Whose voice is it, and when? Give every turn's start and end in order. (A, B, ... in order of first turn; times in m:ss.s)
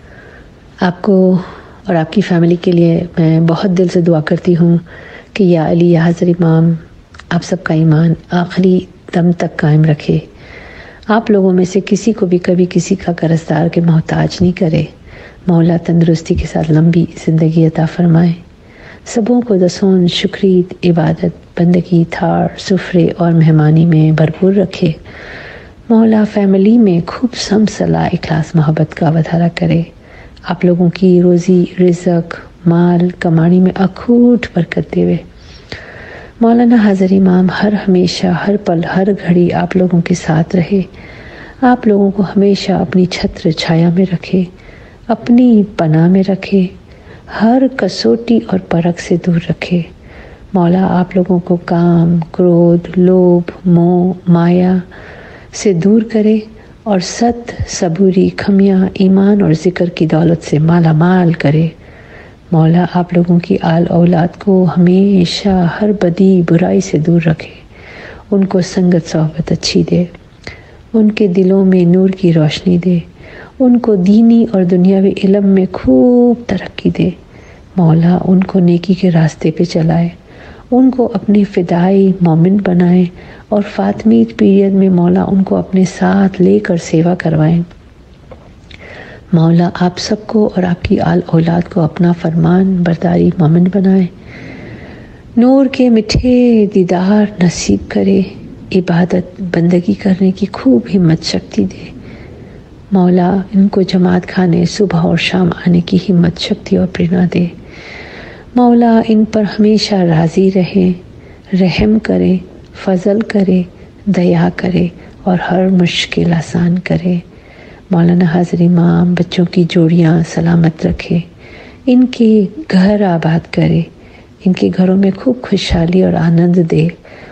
0:00.8-0:04.8 A
0:05.3-0:06.8 A
0:07.3-0:10.2 A
0:11.1-0:14.9 A
0:15.4-0:18.4 A
0:19.0-0:25.0 A
0:25.9-0:29.9 A
0:30.5-0:35.2 A
0:36.4-0:40.9 A
0:41.6-0:44.5 A
0:45.1-0:46.7 A
0:47.3-0:49.9 A
0:50.5-0:54.8 A
0:55.5-1:01.7 A
1:02.5-1:07.6 A
1:08.3-1:10.1 A
1:10.9-1:13.0 A
1:13.6-1:17.2 A
1:17.8-1:20.1 A
1:20.7-1:27.7 A
1:29.3-1:34.1 A
1:35.4-1:41.9 A
1:42.9-1:47.5 A
1:48.6-1:51.0 A
1:51.5-1:57.2 A
1:57.9-2:01.2 A
2:01.9-2:03.9 A
2:04.4-2:07.0 A